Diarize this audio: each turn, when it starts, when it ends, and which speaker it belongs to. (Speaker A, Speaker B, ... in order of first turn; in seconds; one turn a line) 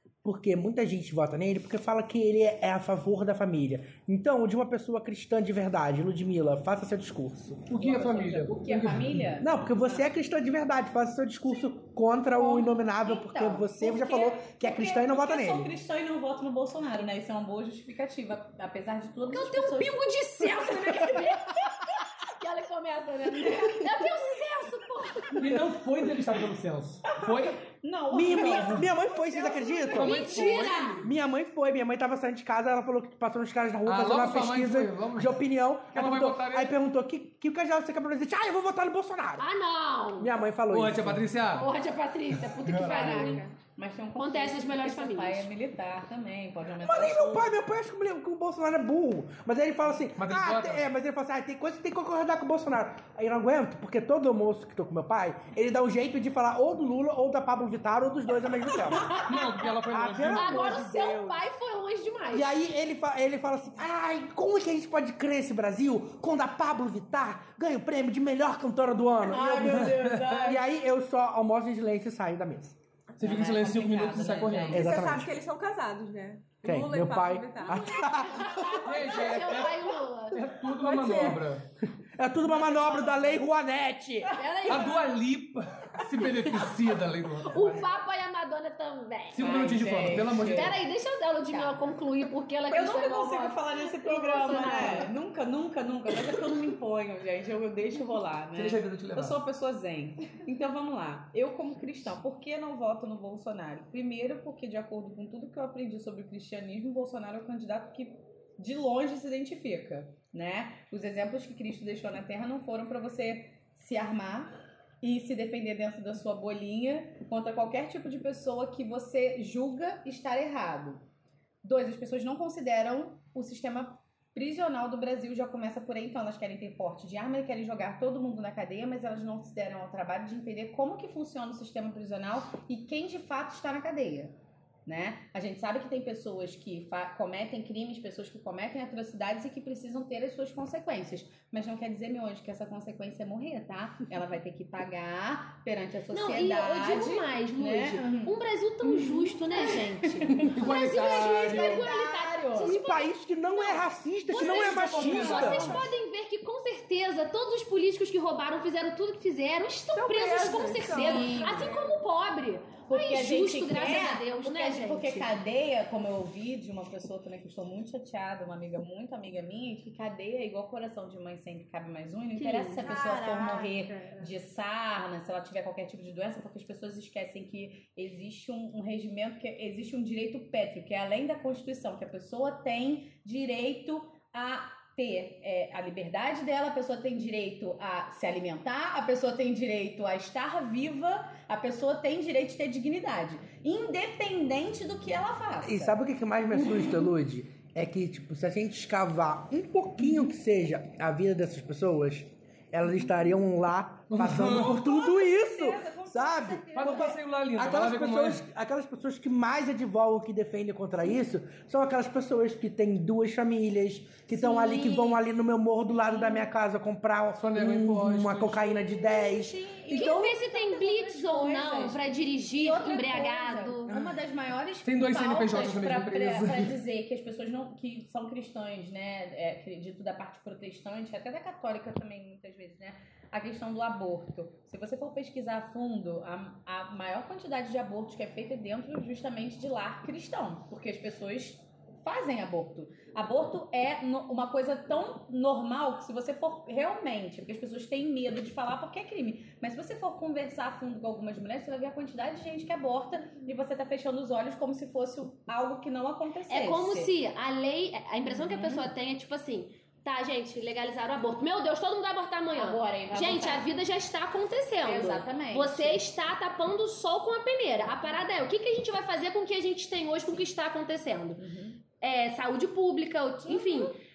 Speaker A: 0.2-7.7
Speaker B: 7.7-9.3
Speaker C: 7.8-10.0
Speaker A: 9.4-15.7
Speaker C: 12.3-21.2
Speaker D: 19.3-25.5
Speaker C: 23.4-24.1
Speaker B: 25.3-27.6
Speaker C: 27.3-30.9
Speaker A: 28.1-30.4
Speaker B: 28.3-28.9
Speaker B: 29.9-31.1
Speaker D: 29.9-31.0
Speaker A: 31.0-39.5
Speaker B: 33.8-36.7
Speaker D: 39.4-40.3
Speaker A: 40.2-41.3
Speaker B: 40.7-41.7
Speaker D: 41.5-43.5
Speaker B: 42.3-43.4
Speaker C: 42.8-47.6
Speaker D: 44.2-45.5
Speaker A: 46.8-59.2
Speaker B: 50.2-50.9
Speaker D: 59.1-59.5
Speaker B: 59.1-60.9
Speaker A: 59.9-61.4
Speaker D: 60.3-62.5
Speaker A: 62.3-72.8
Speaker C: 69.2-70.6
Speaker B: 69.6-70.3
Speaker B: 73.2-74.9
Speaker C: 73.2-74.9
Speaker A: 74.7-75.3
Speaker E: 74.7-77.8
Speaker A: 76.6-78.8
Speaker D: 78.0-80.4
Speaker B: 78.8-81.7
Speaker E: 80.8-81.3
Speaker A: 82.2-84.3
Speaker C: 82.4-83.4
Speaker D: 84.4-85.0
Speaker C: 84.7-84.9
Speaker B: 84.7-87.9
Speaker D: 87.5-89.5
Speaker B: 89.3-90.7
Speaker C: 89.4-90.8
Speaker D: 90.5-95.1
Speaker C: 91.5-91.8
Speaker C: 92.7-121.0
Speaker B: 98.5-99.4
Speaker C: 121.6-152.7
Speaker D: 146.1-165.3
Speaker B: 150.4-151.8
Speaker A: 152.6-155.8
Speaker B: 154.3-155.8
Speaker E: 159.9-162.0
Speaker C: 160.9-161.7
Speaker C: 162.9-195.9
Speaker D: 172.3-172.9
Speaker E: 172.8-174.3
Speaker A: 195.6-220.2
Speaker B: 204.1-204.8
Speaker C: 204.7-207.2
Speaker B: 206.7-208.4
Speaker D: 214.3-215.2
Speaker C: 216.0-216.4
Speaker B: 217.3-218.7
Speaker C: 218.7-222.0
Speaker D: 219.9-223.9
Speaker C: 222.5-257.1
Speaker B: 223.9-224.1
Speaker B: 224.8-226.8
Speaker D: 256.5-271.4
Speaker C: 258.2-258.9
Speaker C: 262.5-263.7
Speaker C: 264.8-266.0
Speaker C: 271.4-271.8
Speaker D: 272.0-274.0
Speaker C: 273.5-273.9